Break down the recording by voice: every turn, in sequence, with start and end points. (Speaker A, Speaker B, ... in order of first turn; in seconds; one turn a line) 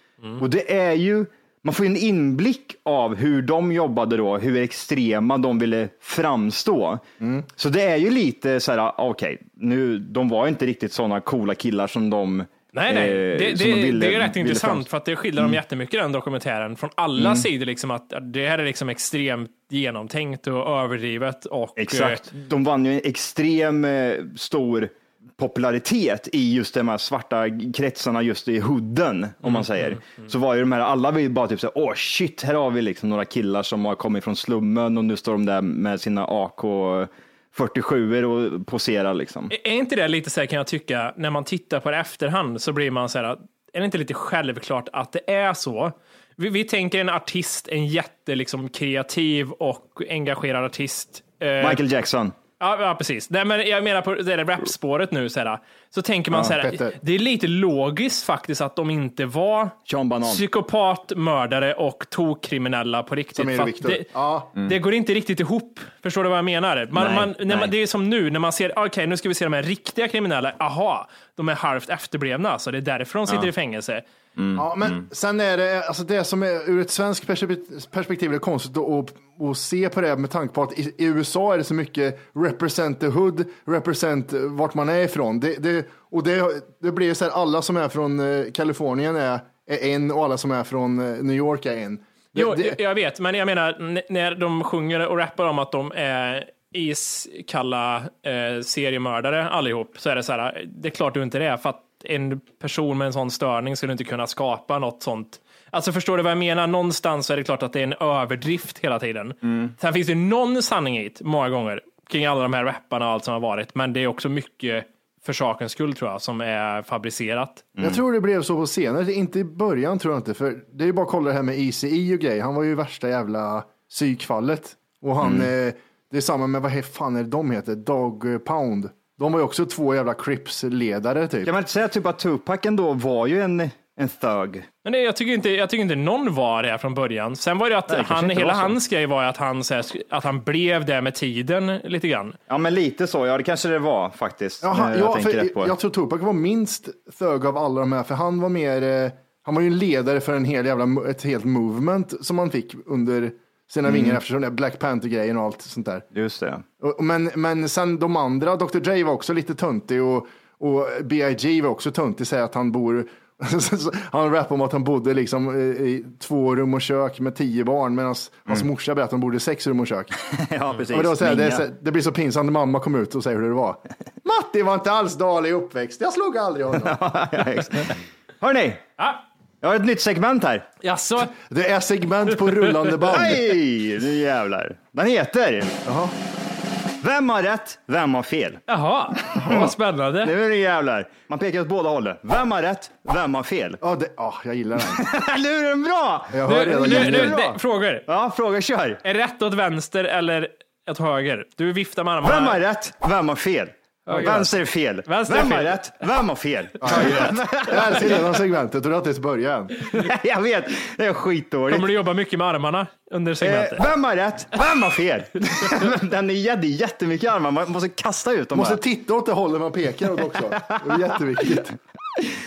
Speaker A: 0.4-7.0
Speaker B: 7.2-7.5
Speaker A: 7.6-14.8
Speaker C: 12.7-22.2
Speaker A: 17.2-17.4
Speaker A: 21.8-39.5
Speaker C: 29.4-30.0
Speaker C: 39.5-51.8
Speaker A: 51.6-52.3
Speaker C: 52.6-74.0
Speaker B: 56.4-57.0
Speaker A: 59.9-60.4
Speaker B: 63.4-64.5
Speaker A: 66.9-67.7
Speaker A: 74.3-75.0
Speaker B: 74.5-92.8
Speaker C: 92.3-117.7
Speaker A: 109.4-109.7
Speaker B: 117.8-131.5
Speaker A: 125.2-125.5
Speaker A: 131.4-134.7
Speaker C: 134.8-142.3
Speaker A: 137.9-138.7
Speaker A: 142.5-145.7
Speaker B: 144.6-156.0
Speaker A: 153.8-154.2
Speaker A: 156.1-156.6
Speaker B: 156.8-170.1
Speaker A: 170.2-171.6
Speaker B: 170.9-177.0
Speaker A: 176.8-178.8
Speaker A: 179.6-180.7
Speaker C: 180.8-181.3
Speaker B: 181.5-183.4
Speaker A: 183.1-185.8
Speaker B: 185.8-186.1
Speaker A: 187.0-188.6
Speaker C: 188.7-190.3
Speaker A: 189.3-193.8
Speaker B: 193.8-195.0
Speaker A: 194.8-199.0
Speaker B: 196.3-197.4
Speaker C: 196.5-198.1
Speaker C: 199.0-202.6
Speaker A: 202.2-208.2
Speaker C: 204.1-204.5
Speaker C: 205.0-206.0
Speaker B: 206.8-209.8
Speaker C: 206.9-207.3
Speaker A: 209.9-211.9
Speaker C: 211.7-213.9
Speaker A: 213.4-218.8
Speaker B: 218.5-221.8